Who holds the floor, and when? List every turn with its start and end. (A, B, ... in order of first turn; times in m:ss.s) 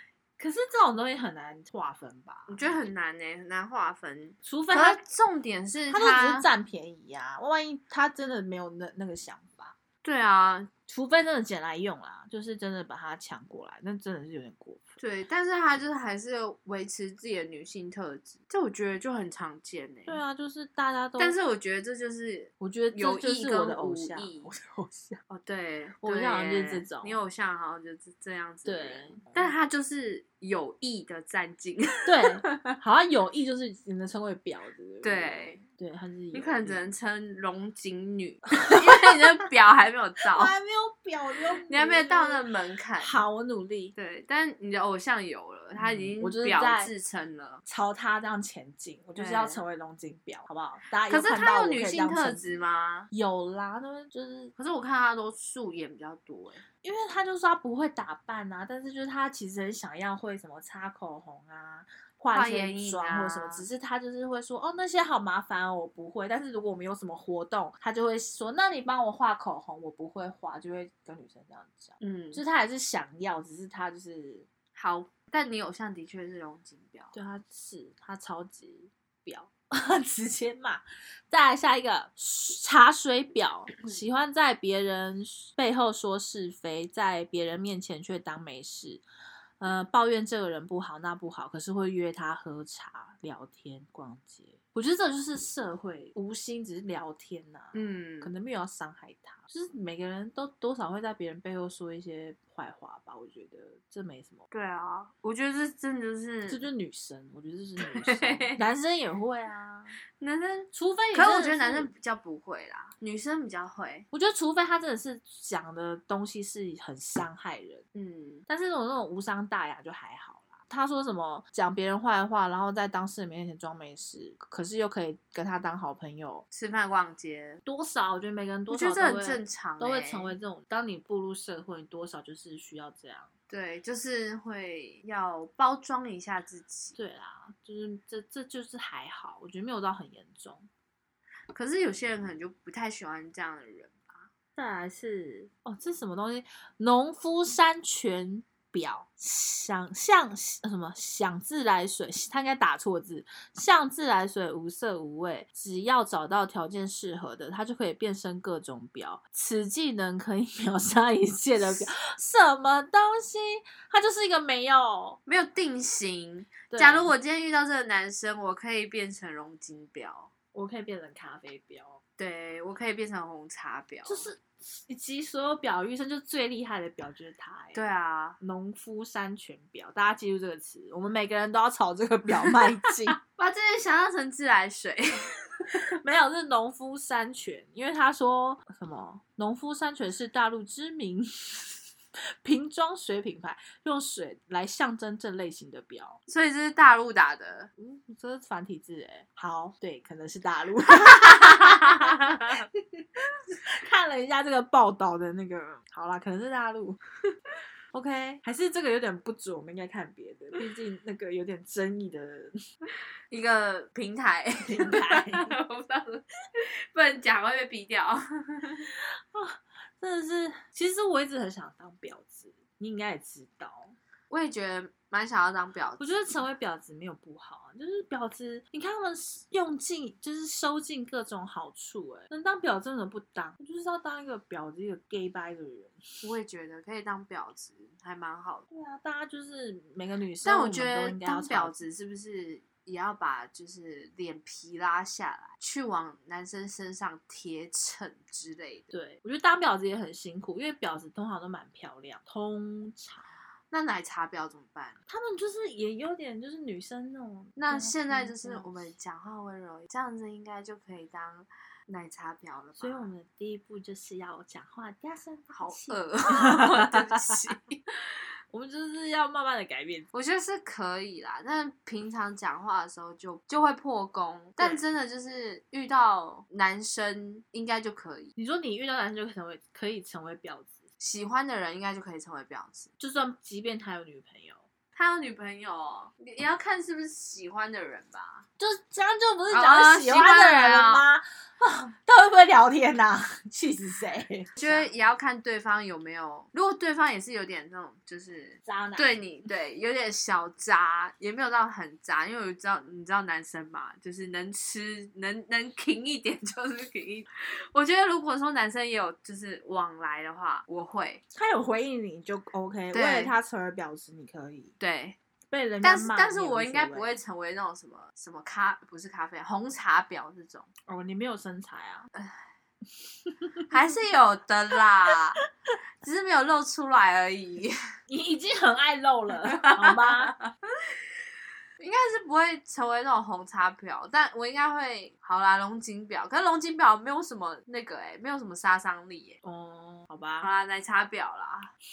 0:00.4-0:02.7 A
0:02.5-0:06.5 B
0:04.4-0:05.0 A
0:05.9-0:09.7 A
0:10.0-0:10.7 B
0:10.9-0:14.8 A
0:15.0-0:20.2 B
0:20.0-0:21.4 A
0:21.2-0:24.5 B
0:22.6-0:25.2 A
0:25.3-0:32.5 B
0:26.0-0:27.2 A
0:28.6-0:29.3 A
0:32.0-0:36.8 A
0:35.0-0:35.6 B
0:36.3-0:40.5 B
0:40.3-0:42.4 A
0:41.7-0:43.2 B
0:43.0-0:43.9 A
0:43.9-0:47.6 B
0:45.8-0:46.9 A
0:47.6-0:52.5 A
0:49.2-0:49.6 B
0:51.1-0:53.1 B
0:53.1-0:54.5 A
0:54.6-0:56.6 B
0:56.8-1:14.5 A
1:02.3-1:03.7 B
1:12.0-1:12.4 B
1:14.7-1:17.1 B
1:17.1-1:29.0 A
1:29.6-1:44.4 A
1:37.7-1:38.3 B
1:44.5-1:46.7 B
1:46.5-1:50.0 A
1:47.8-1:48.6 B
1:50.2-1:54.1 B
1:50.7-1:51.9 A
1:54.1-1:57.8 A
1:57.9-1:58.4 B
1:58.5-2:06.4 A
2:06.5-2:07.6 B
2:07.6-2:13.3 A
2:08.7-2:10.3 B
2:13.5-2:17.0 B
2:17.0-2:20.7 A
2:21.5-2:24.3 B
2:24.6-2:45.2 A
2:45.2-2:50.3 B
2:46.7-2:47.1 A
2:50.5-2:52.0 A
2:52.2-2:54.3 B
2:54.0-2:57.8 A
2:57.7-2:58.4 B
2:58.4-3:03.2 A
3:03.3-3:05.3 B
3:06.0-3:11.7 A
3:12.4-3:16.2 A
3:16.3-3:17.7 B
3:17.8-3:23.0 A
3:21.4-3:22.4 B
3:23.6-3:27.0 A
3:27.9-3:32.6 A
3:33.3-3:38.8 B
3:34.7-3:35.5 A
3:39.0-3:43.9 A
3:44.3-3:46.3 B
3:46.0-3:56.2 A
3:56.2-3:58.7 B
3:58.7-4:01.8 A
4:00.4-4:08.9 B
4:08.9-4:13.3 A
4:13.7-4:15.0 B
4:15.1-4:18.9 A
4:17.6-4:23.1 B
4:22.8-4:27.4 A
4:25.5-4:27.8 B
4:28.5-4:30.1 A
4:30.1-4:38.3 B
4:34.6-4:34.8 A
4:38.4-4:40.8 A
4:41.0-4:42.9 B
4:43.0-4:44.6 A
4:44.9-4:48.4 B
4:48.6-4:54.9 A
4:49.5-4:51.1 B
4:54.6-5:11.2 B
4:58.6-4:59.2 A
5:11.3-5:14.7 A
5:12.9-5:13.3 B
5:14.8-5:15.2 B
5:15.5-5:17.2 A
5:15.8-5:20.7 B
5:20.9-5:22.1 A
5:22.1-5:22.4 B
5:23.7-5:25.4 B
5:26.0-5:27.7 B
5:28.1-5:30.3 A
5:29.5-5:30.5 B
5:31.8-5:39.4 B
5:39.4-5:40.5 A
5:40.4-5:41.7 B